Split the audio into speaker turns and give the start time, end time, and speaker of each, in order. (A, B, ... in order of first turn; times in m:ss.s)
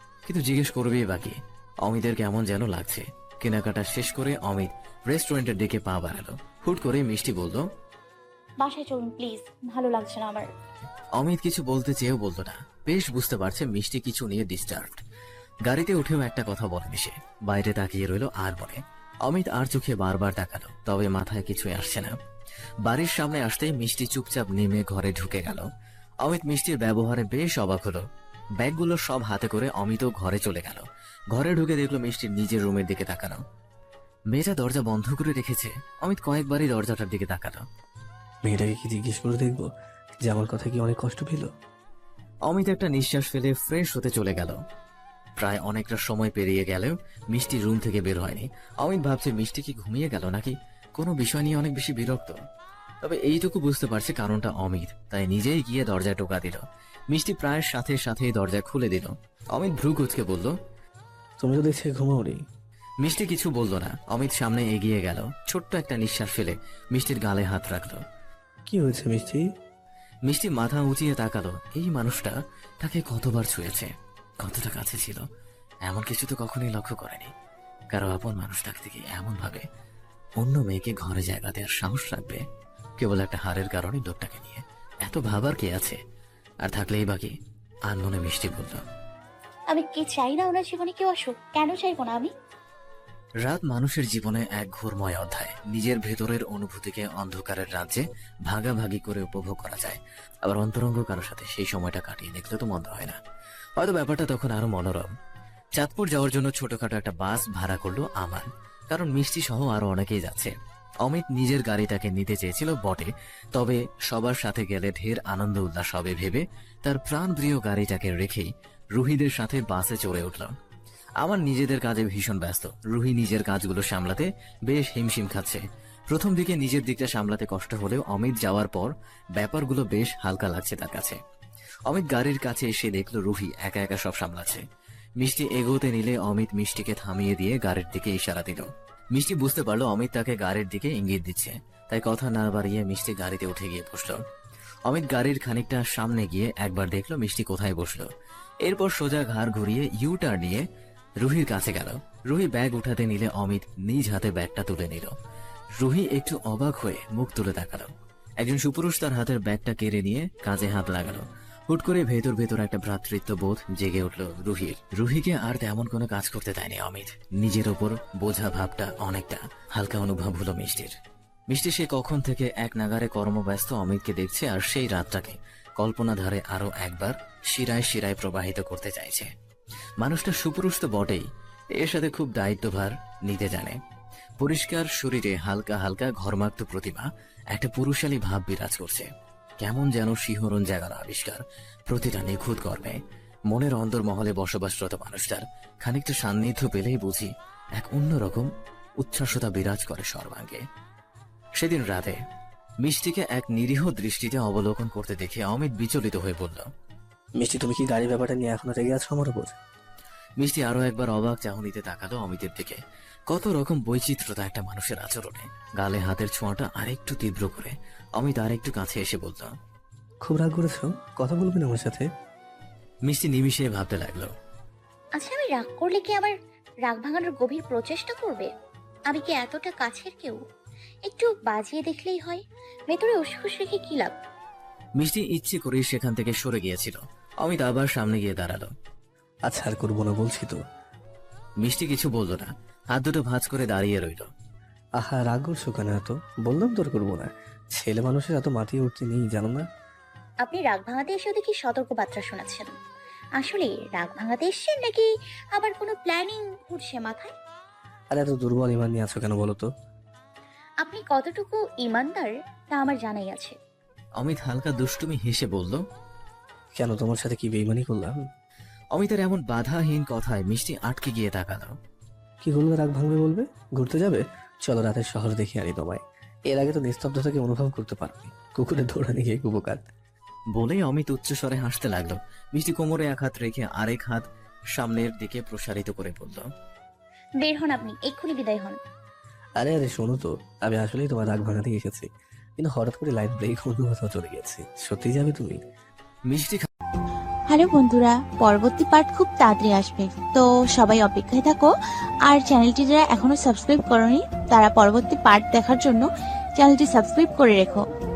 0:00.2-0:07.6 A
0:08.6-0:10.5 B
0:11.2-0:15.0 A
0:15.7-0:22.1 A
0:22.9-0:25.6 A
0:26.2-0:28.0 A
0:28.6-0:33.4 A
0:34.3-0:37.6 A
0:38.4-0:39.7 C
0:40.2-0:41.5 C
0:42.5-0:44.6 A
0:45.4-0:52.4 A
0:53.0-1:00.5 A
1:01.4-1:02.4 C
1:03.0-1:08.0 A
1:08.7-1:09.4 C
1:10.3-1:13.9 A
1:14.4-1:15.2 A
1:15.8-1:17.3 A
1:17.9-1:19.6 A
1:20.4-1:22.4 A
1:23.0-1:26.0 A
1:26.6-1:27.3 A
1:27.9-1:28.8 A
1:29.7-1:32.3 B
1:33.4-1:43.2 A
1:43.8-1:45.1 A
1:45.8-2:00.5 A
2:01.2-2:11.2 A
2:11.9-2:14.6 A
2:15.2-2:24.2 A
2:24.9-2:28.1 A
2:28.6-2:30.6 A
2:31.2-2:35.1 A
2:35.8-2:50.9 A
2:51.5-2:59.3 A
3:00.0-3:01.2 A
3:01.8-3:03.8 A
3:04.4-3:09.1 A
3:09.6-3:13.0 A
3:13.5-3:18.5 A
3:19.0-3:20.6 A
3:21.6-3:22.2 A
3:22.8-3:26.6 A
3:27.4-3:29.6 C
3:30.4-3:39.5 A
3:40.2-3:42.0 C
3:43.1-3:44.3 A
3:45.2-3:46.3 B
3:46.9-3:48.5 B
3:49.1-3:50.4 B
3:51.0-3:54.1 B
3:55.0-3:58.7 A
3:59.5-4:00.6 C
4:01.6-4:04.3 A
4:05.0-4:09.6 C
4:10.4-4:12.7 B
4:13.4-4:17.3 B
4:18.1-4:19.7 C
4:20.8-4:23.6 B
4:24.2-4:25.8 A
4:26.8-4:28.2 C
4:28.9-4:31.7 A
4:32.4-4:39.8 C
4:40.5-4:46.4 A
4:47.4-4:48.8 B
4:49.6-4:55.6 C
4:56.3-4:56.7 A
4:57.5-5:01.7 D
5:02.3-5:06.0 D
5:06.6-5:07.8 D